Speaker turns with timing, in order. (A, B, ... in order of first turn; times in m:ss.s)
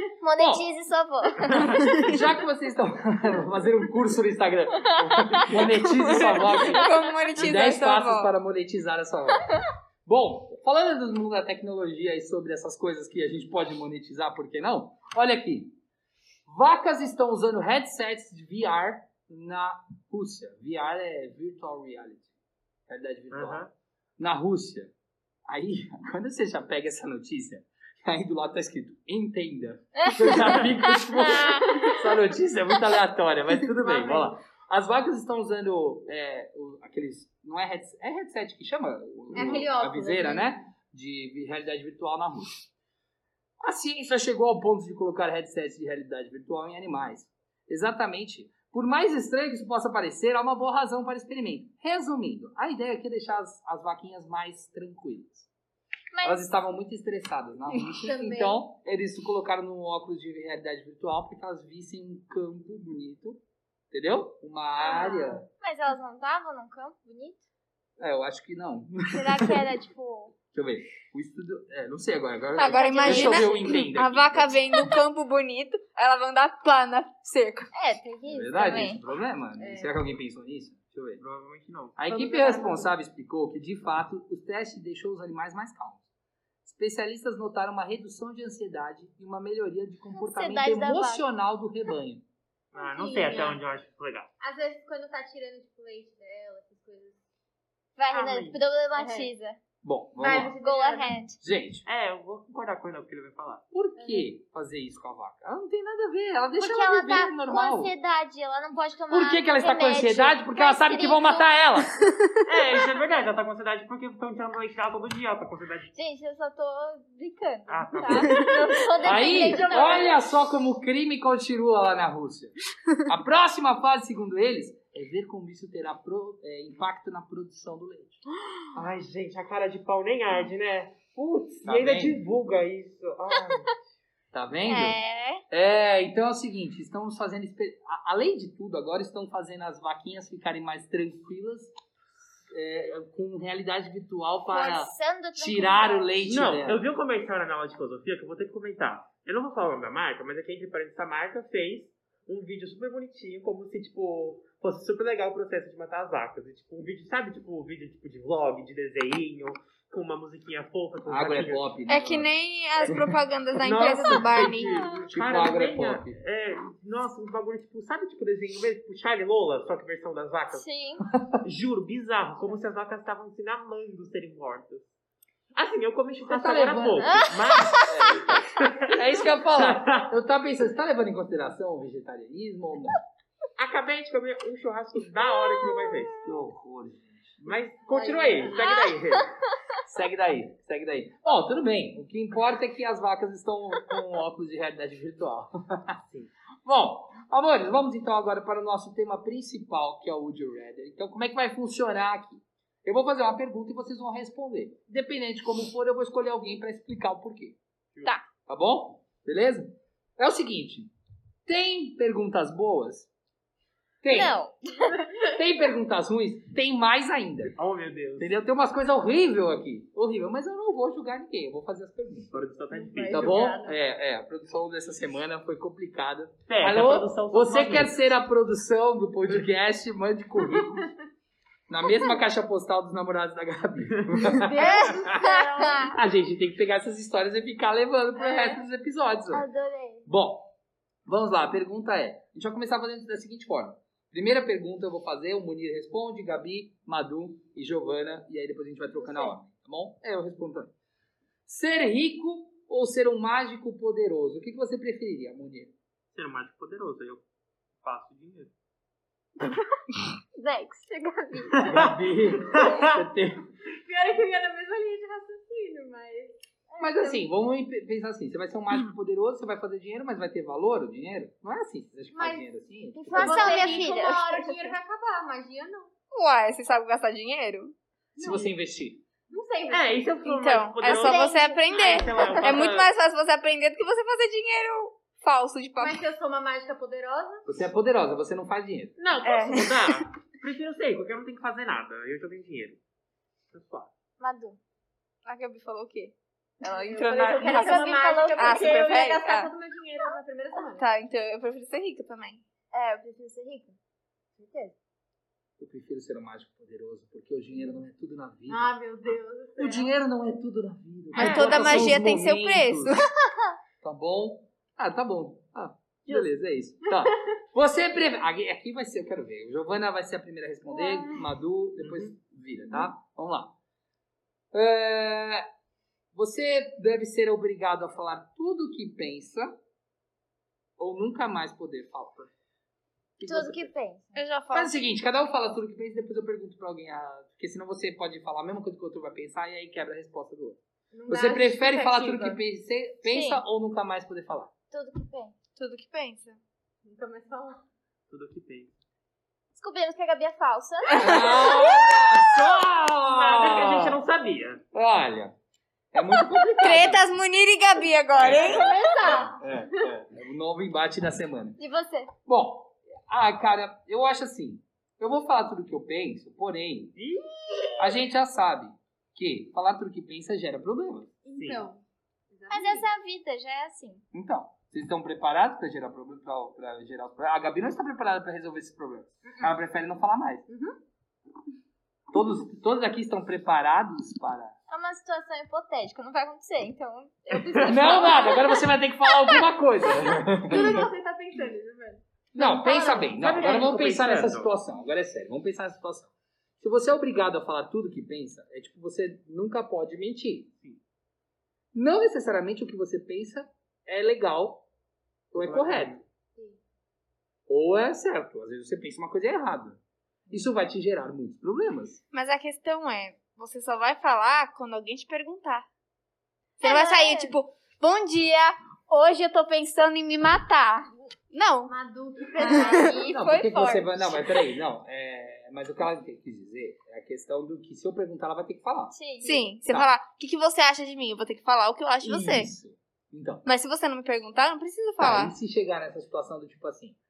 0:00.2-0:01.9 A
0:00.4-0:00.7 B
0:02.0-0:15.8 B
0:05.0-0:05.4 A
0:06.0-0:08.3 C
0:16.5-0:22.3 B
0:22.9-0:23.6 B
0:23.3-0:23.7 D
0:24.2-0:24.9 B
0:25.5-0:42.7 B
0:30.0-0:30.6 A
0:31.2-0:32.0 A
0:33.8-0:34.3 E
0:39.3-0:40.7 E
0:43.6-0:55.5 B
0:56.1-0:56.4 A
0:56.2-1:03.4 B
0:57.9-0:58.6 E
1:03.9-1:05.5 B
1:04.8-1:05.4 E
1:05.5-1:07.4 A
1:08.0-1:09.6 B
1:09.1-1:10.4 A
1:10.5-1:14.6 B
1:12.6-1:13.7 A
1:12.6-1:17.7 C
1:17.7-1:19.0 A
1:18.3-1:21.2 B
1:19.6-1:19.9 E
1:21.2-1:22.0 D
1:22.0-1:26.0 B
1:22.1-1:22.9 E
1:26.6-1:32.2 B
1:30.2-1:31.2 A
1:32.7-1:34.3 D
1:32.8-1:33.6 E
1:34.4-1:37.2 E
1:38.0-1:39.6 A
1:38.1-1:38.4 E
1:38.1-1:38.6 D
1:39.0-1:39.3 E
1:39.8-1:40.5 B
1:40.2-1:41.2 E
1:40.6-1:41.4 A
1:41.4-1:41.9 B
1:41.9-1:43.6 D
1:43.7-1:47.9 B
1:44.0-1:44.3 E
1:46.6-1:51.5 A
1:49.1-1:52.0 B
1:52.4-1:55.9 D
1:55.9-2:00.1 A
1:57.7-1:58.5 D
1:58.3-2:00.1 E
1:59.0-2:08.2 B
2:08.7-2:13.8 D
2:11.6-2:12.2 B
2:14.3-2:21.7 B
2:14.7-2:15.4 A
2:22.5-2:26.8 B
2:24.5-2:26.2 A
2:26.2-2:41.8 D
2:41.1-2:42.3 B
2:41.9-2:44.7 C
2:43.6-2:50.6 D
2:44.4-2:46.2 B
2:50.5-2:51.1 A
2:51.4-2:54.9 D
2:55.6-2:59.0 D
2:56.3-2:57.3 B
2:57.0-2:58.4 A
2:57.8-3:03.0 B
2:59.6-3:00.1 D
3:03.6-3:06.2 D
3:06.2-3:07.5 B
3:07.4-3:09.3 D
3:07.9-3:08.8 E
3:09.8-3:16.0 B
3:16.0-3:16.3 D
3:16.6-3:27.6 B
3:28.5-3:30.9 B
3:31.5-3:33.1 B
3:34.0-3:34.4 B
3:34.1-3:35.0 A
3:35.2-3:37.6 B
3:37.6-3:38.4 D
3:38.2-3:42.4 B
3:42.3-3:43.5 D
3:42.7-3:43.8 E
3:43.1-3:50.9 B
3:46.5-3:48.0 D
3:51.7-3:59.5 B
3:54.0-3:54.3 D
3:54.4-3:55.9 E
3:54.5-3:56.0 A
3:58.2-3:58.6 E
3:59.3-4:00.1 A
4:00.1-4:00.5 B
4:01.1-4:10.7 B
4:11.5-4:15.7 B
4:16.1-4:17.2 D
4:17.8-4:18.5 D
4:20.4-4:21.9 A
4:21.6-4:23.0 D
4:21.6-4:23.4 B
4:23.8-4:27.2 E
4:26.8-4:33.5 B
4:32.1-4:32.5 E
4:33.0-4:34.3 A
4:33.1-4:35.9 E
4:33.2-4:34.7 C
4:36.1-4:37.7 C
4:38.2-4:38.5 E
4:38.2-4:39.0 B
4:39.3-4:40.2 E
4:39.7-4:42.9 D
4:40.2-4:46.0 C
4:40.9-4:42.0 A
4:45.8-4:47.4 E
4:47.5-4:48.9 B
4:49.0-4:52.8 D
4:49.2-4:49.9 C
4:53.5-4:53.9 D
4:54.2-4:54.6 A
4:55.2-4:59.5 C
4:56.6-5:00.9 E
4:57.4-4:58.9 A
5:00.7-5:02.4 C
5:02.7-5:03.8 A
5:04.4-5:04.7 A
5:05.6-5:08.8 B
5:08.5-5:09.9 E
5:09.6-5:13.0 B
5:11.2-5:13.2 C
5:11.2-5:11.9 D
5:13.8-5:23.6 B
5:21.8-5:22.1 D
5:24.5-5:25.5 B
5:26.1-5:29.6 B
5:30.8-5:32.3 B
5:33.2-5:33.7 B
5:33.2-5:34.2 A
5:34.2-5:34.7 C
5:34.5-5:44.5 B
5:40.9-5:42.4 E
5:43.0-5:43.4 A
5:44.7-5:45.3 A
5:45.6-5:46.4 C
5:46.8-5:47.6 E
5:48.1-5:48.7 D
5:49.5-5:51.7 A
5:50.9-5:51.5 C
5:51.0-5:54.0 B
5:53.0-5:54.6 D
5:54.7-5:55.4 B
5:55.9-5:57.0 B
5:56.6-5:58.8 C
5:58.2-5:58.5 D
5:58.2-5:58.7 B
5:58.4-5:59.9 E
5:59.3-6:01.6 B
6:01.6-6:02.1 A
6:02.3-6:07.0 B
6:07.0-6:07.7 D
6:07.8-6:11.2 B
6:11.2-6:12.9 E
6:11.4-6:11.7 D
6:12.5-6:14.0 A
6:14.1-6:20.5 B
6:20.5-6:20.8 E
6:22.1-6:24.6 B
6:24.7-6:29.4 A
6:27.3-6:27.8 D
6:27.6-6:30.9 B
6:30.4-6:33.1 E
6:32.4-6:40.5 B
6:33.2-6:34.5 D
6:41.7-6:44.7 B
6:45.3-6:46.0 B
6:45.4-6:46.0 D
6:47.5-6:52.0 B
6:52.1-6:55.7 C
6:56.6-6:57.4 A
6:56.6-7:01.7 C
7:01.7-7:03.1 E
7:02.4-7:03.5 A
7:02.4-7:03.9 C
7:03.1-7:09.0 B
7:08.9-7:09.5 A
7:09.2-7:12.5 C
7:12.0-7:13.5 B
7:13.5-7:15.3 C
7:15.0-7:17.0 B